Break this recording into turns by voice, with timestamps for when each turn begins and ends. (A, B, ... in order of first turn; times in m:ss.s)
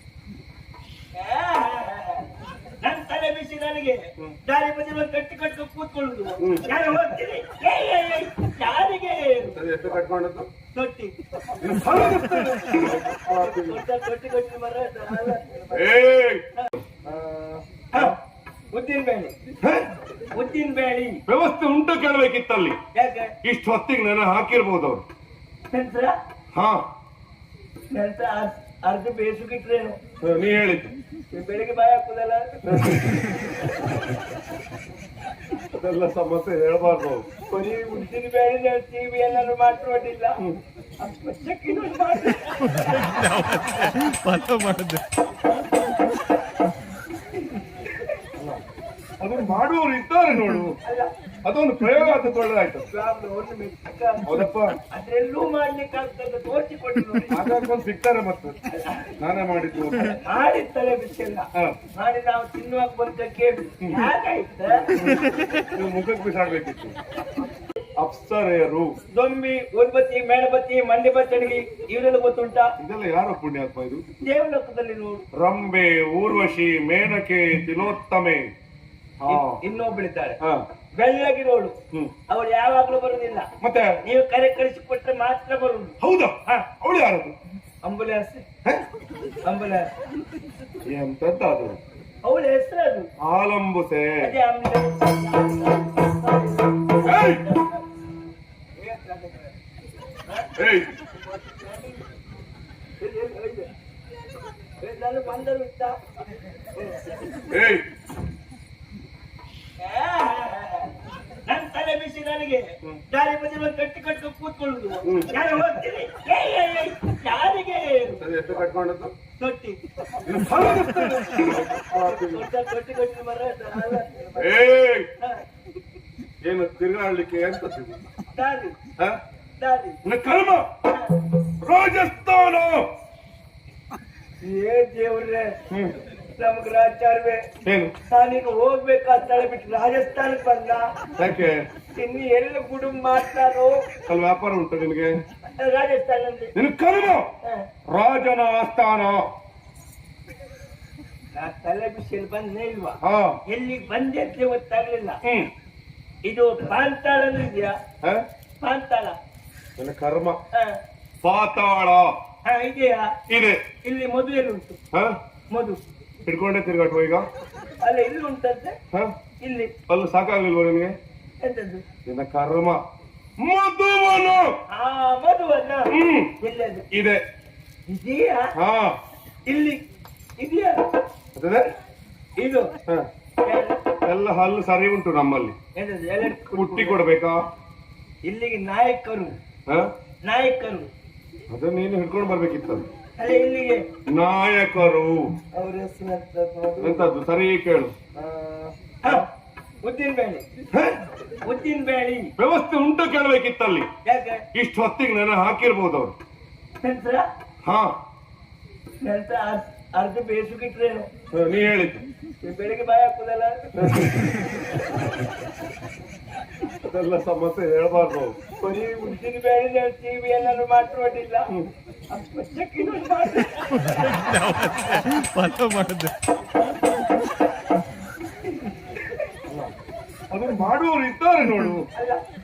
0:01.2-0:02.2 A
0:02.8-0:09.6 A
0:06.4-0:06.7 B
0:09.5-0:10.5 B
0:10.7-0:11.1 A
0:11.6-0:13.8 B
0:13.3-0:15.9 A
0:15.7-0:16.8 B
0:16.5-0:18.2 A
0:18.7-0:19.3 A
0:19.6-0:19.9 B
0:20.3-0:21.2 A
0:21.3-0:22.8 B
0:22.9-0:23.3 A
0:23.4-0:25.0 B
0:25.7-0:26.2 A
0:26.5-0:26.8 B
0:27.9-0:30.0 A
0:30.2-0:30.9 B
0:31.3-0:32.8 A
0:32.6-0:33.2 B
0:35.7-0:37.3 B
0:37.5-0:40.4 A
0:41.0-0:43.2 A
0:42.8-0:45.0 C
0:48.4-0:48.6 B
0:49.2-0:50.7 B
0:50.8-0:51.1 A
0:51.4-0:52.9 B
0:52.9-0:57.4 A
0:54.2-0:54.7 B
0:57.3-0:58.6 B
0:58.7-0:59.1 A
0:59.2-1:00.2 B
1:00.1-1:04.9 A
1:03.8-1:04.1 B
1:04.9-1:07.0 B
1:08.0-1:09.0 B
1:09.1-1:12.7 A
1:12.8-1:14.0 B
1:14.2-1:15.2 A
1:15.3-1:18.5 B
1:19.2-1:19.6 B
1:19.3-1:20.4 A
1:21.0-1:21.8 A
1:22.3-1:23.5 A
1:23.6-1:24.0 B
1:24.0-1:26.0 A
1:26.0-1:27.4 B
1:27.8-1:28.4 A
1:29.4-1:29.9 A
1:30.8-1:31.8 B
1:32.2-1:33.1 A
1:33.2-1:34.3 B
1:34.2-1:37.8 A
1:37.0-1:37.4 B
1:38.8-1:39.5 A
1:40.2-1:40.5 A
1:40.6-1:40.9 B
1:41.3-1:42.0 A
1:43.0-1:43.7 A
1:44.8-1:47.0 A
1:47.5-1:47.8 B
1:49.8-1:50.9 A
1:51.5-1:58.2 A
1:55.0-1:55.3 B
1:58.2-1:59.1 B
1:59.4-1:59.8 A
2:00.2-2:02.4 B
2:01.9-2:04.4 A
2:04.4-2:05.1 B
2:05.2-2:05.4 A
2:06.4-2:08.0 B
2:08.3-2:08.8 A
2:09.6-2:10.0 A
2:10.0-2:10.6 B
2:10.8-2:11.1 A
2:11.6-2:12.9 B
2:14.4-2:15.6 A
2:16.4-2:17.4 A
2:17.6-2:17.9 B
2:18.1-2:20.9 A
2:21.2-2:21.7 B
2:21.9-2:23.8 A
2:24.0-2:25.2 B
2:25.4-2:26.5 A
2:26.5-2:27.3 B
2:27.9-2:29.3 B
2:31.3-2:35.2 A
2:33.0-2:33.4 B
2:35.2-2:35.5 B
2:36.2-2:37.8 A
2:38.6-2:39.2 A
2:39.8-2:40.4 B
2:40.5-2:40.8 A
2:41.2-2:42.1 B
2:42.4-2:43.1 A
2:43.3-2:43.6 B
2:43.8-2:44.8 A
2:44.9-2:45.2 B
2:45.5-2:45.8 A
2:46.2-2:47.2 B
2:47.8-2:48.8 A
2:49.4-2:49.7 A
2:49.9-2:50.9 B
2:51.4-2:51.8 A
2:52.0-2:52.8 B
2:53.4-2:54.6 B
2:54.7-2:56.8 A
2:55.9-2:56.3 B
2:56.9-2:57.2 B
2:57.9-2:58.5 A
2:58.6-2:59.0 B
2:59.5-2:59.8 A
3:00.4-3:00.8 A
3:01.3-3:01.6 B
3:02.4-3:02.7 A
3:03.4-3:03.8 A
3:04.0-3:05.6 B
3:05.8-3:07.0 A
3:06.2-3:07.4 B
3:08.2-3:09.4 A
3:09.7-3:09.9 B
3:10.2-3:10.9 A
3:11.5-3:12.9 B
3:13.2-3:13.9 A
3:14.1-3:15.3 B
3:15.5-3:17.1 A
3:16.8-3:17.9 B
3:18.2-3:19.2 A
3:19.8-3:20.4 A
3:21.4-3:22.3 A
3:22.4-3:23.9 B
3:24.0-3:24.4 A
3:24.5-3:26.1 B
3:26.8-3:27.3 A
3:27.6-3:28.0 B
3:29.0-3:31.1 A
3:31.3-3:32.0 B
3:32.4-3:33.7 A
3:33.8-3:34.2 B
3:36.8-3:38.4 B
3:38.6-3:41.5 A
3:42.1-3:44.3 A
3:43.9-3:46.1 C
3:49.5-3:49.7 B
3:50.3-3:51.8 B
3:51.9-3:52.2 A